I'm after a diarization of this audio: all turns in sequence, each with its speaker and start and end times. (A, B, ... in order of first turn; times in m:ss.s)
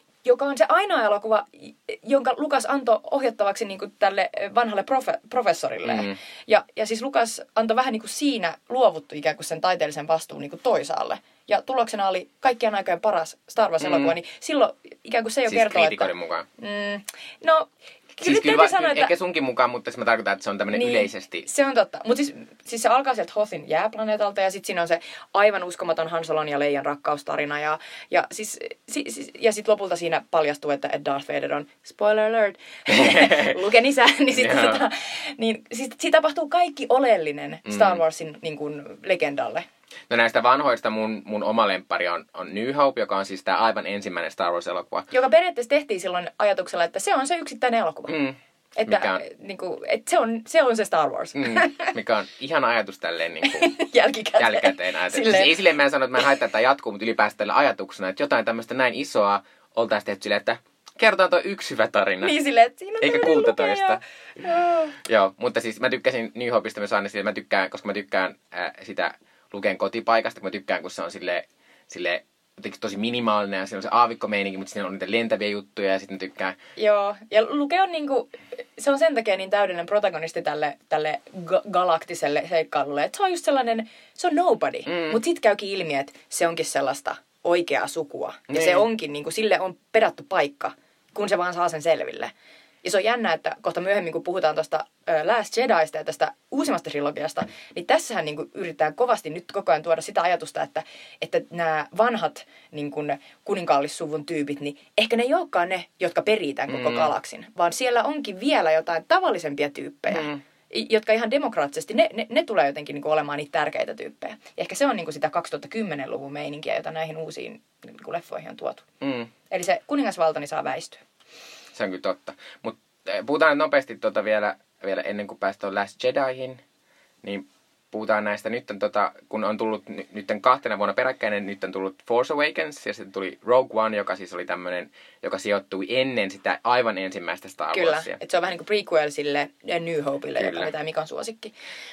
0:00.2-0:19.1 A
0:05.8-0:06.2 B
0:13.8-0:14.2 B
0:15.5-0:16.5 B
0:18.2-0:21.5 B
0:20.7-0:39.7 A
0:32.9-0:33.6 B
0:34.3-0:34.8 B
0:37.7-0:38.0 B
0:40.1-0:45.1 B
0:45.1-0:48.2 A
0:48.1-0:49.2 B
0:48.8-0:51.9 A
0:51.4-0:53.7 B
0:53.4-0:55.6 A
0:54.4-1:02.4 B
1:02.2-1:05.0 A
1:03.0-1:04.0 B
1:05.0-1:16.6 B
1:16.8-1:32.3 A
1:24.9-1:25.2 B
1:28.5-1:28.8 B
1:32.8-1:58.9 A
1:46.7-1:47.1 B
1:50.1-1:50.4 B
1:59.0-1:59.3 B
1:59.5-2:01.0 A
2:01.8-2:06.6 B
2:07.2-2:18.2 B
2:17.7-2:21.5 A
2:20.4-2:20.7 B